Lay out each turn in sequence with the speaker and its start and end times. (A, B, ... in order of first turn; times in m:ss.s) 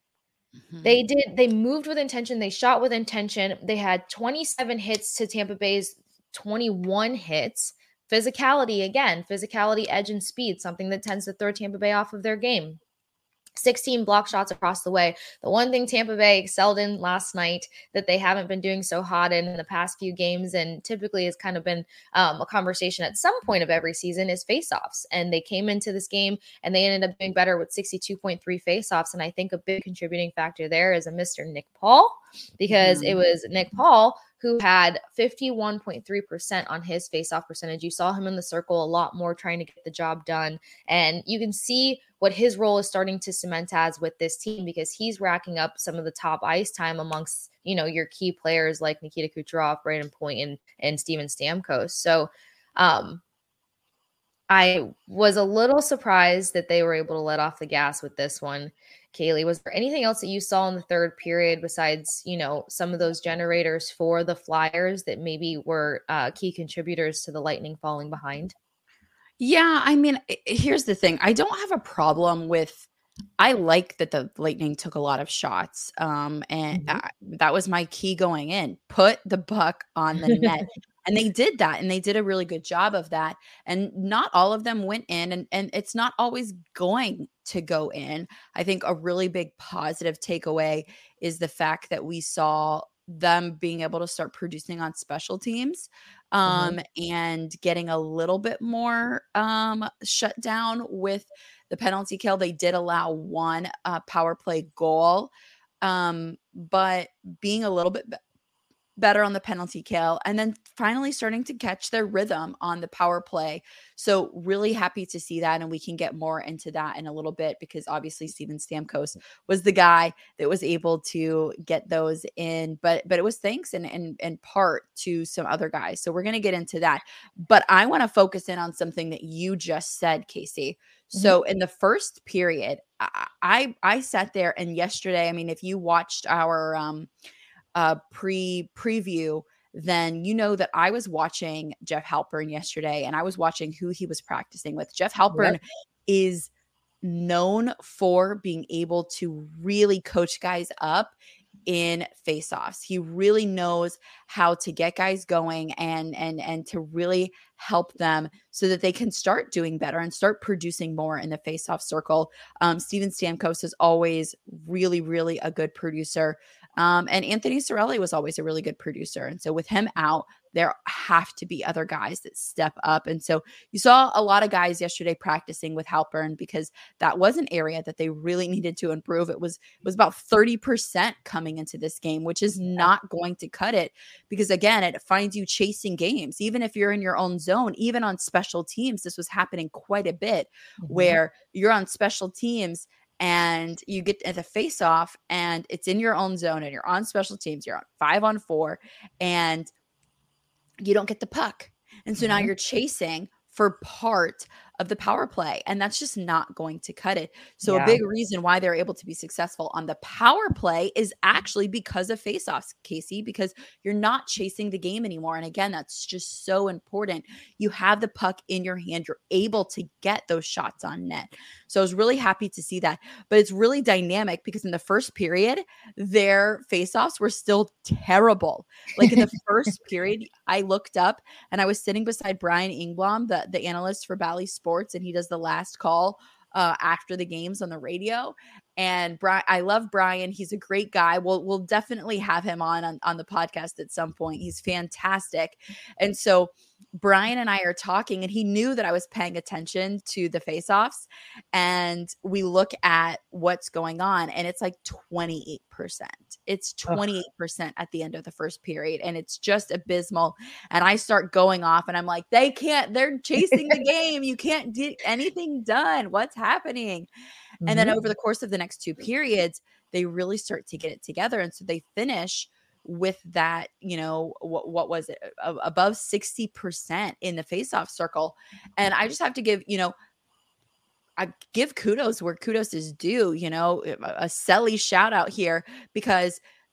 0:00.7-0:01.0 A
0:00.8-0:12.8 B
0:13.6-0:53.2 B
0:32.7-0:33.2 A
0:54.5-1:08.5 B
1:09.4-1:12.8 A
1:13.4-1:48.2 A
1:16.7-1:17.0 B
1:36.4-1:36.8 B
1:49.0-2:17.1 A
2:17.8-2:26.5 A
2:25.3-2:25.6 B
2:27.0-3:19.7 A
3:10.8-3:11.2 B
3:20.8-4:27.1 A
3:22.2-3:22.5 B
3:27.6-3:28.0 B
4:27.6-4:28.0 B
4:27.6-4:39.9 A
4:41.2-4:46.4 A